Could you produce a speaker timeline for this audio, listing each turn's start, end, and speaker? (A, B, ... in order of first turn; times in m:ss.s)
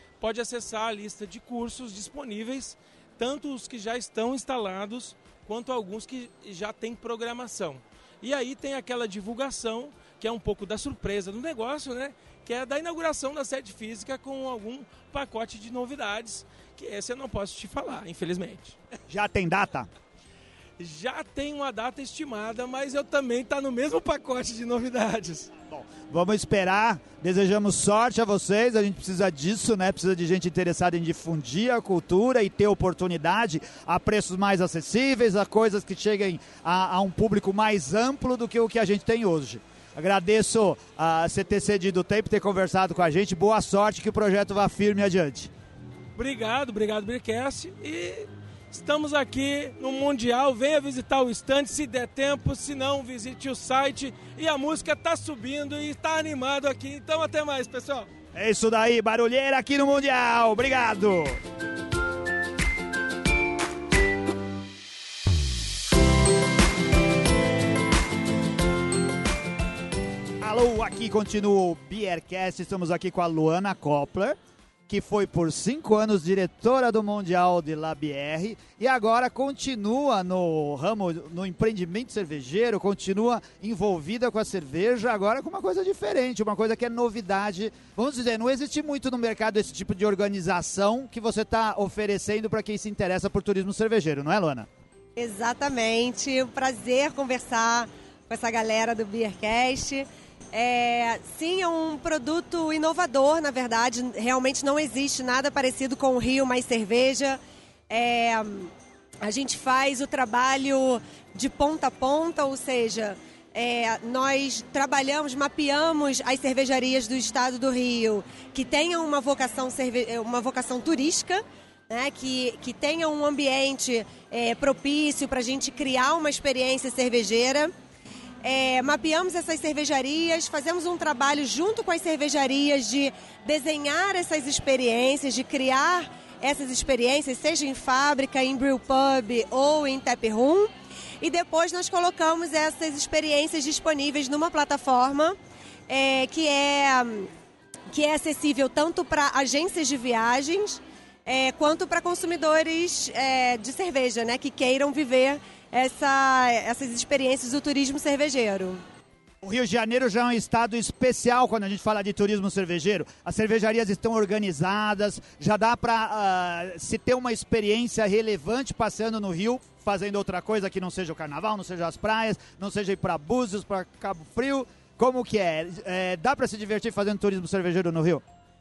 0:00.2-0:18.8 A
0:19.1-0:19.9 B
0:20.8-0:25.5 A
0:25.7-0:45.5 B
0:46.2-0:58.1 A
0:58.3-1:01.4 B
1:10.4-1:14.4 B
1:14.9-1:34.7 B
1:35.2-1:48.7 C
1:49.2-2:07.7 C
2:08.4-2:27.3 C
2:27.9-2:38.8 C
2:39.4-2:58.2 B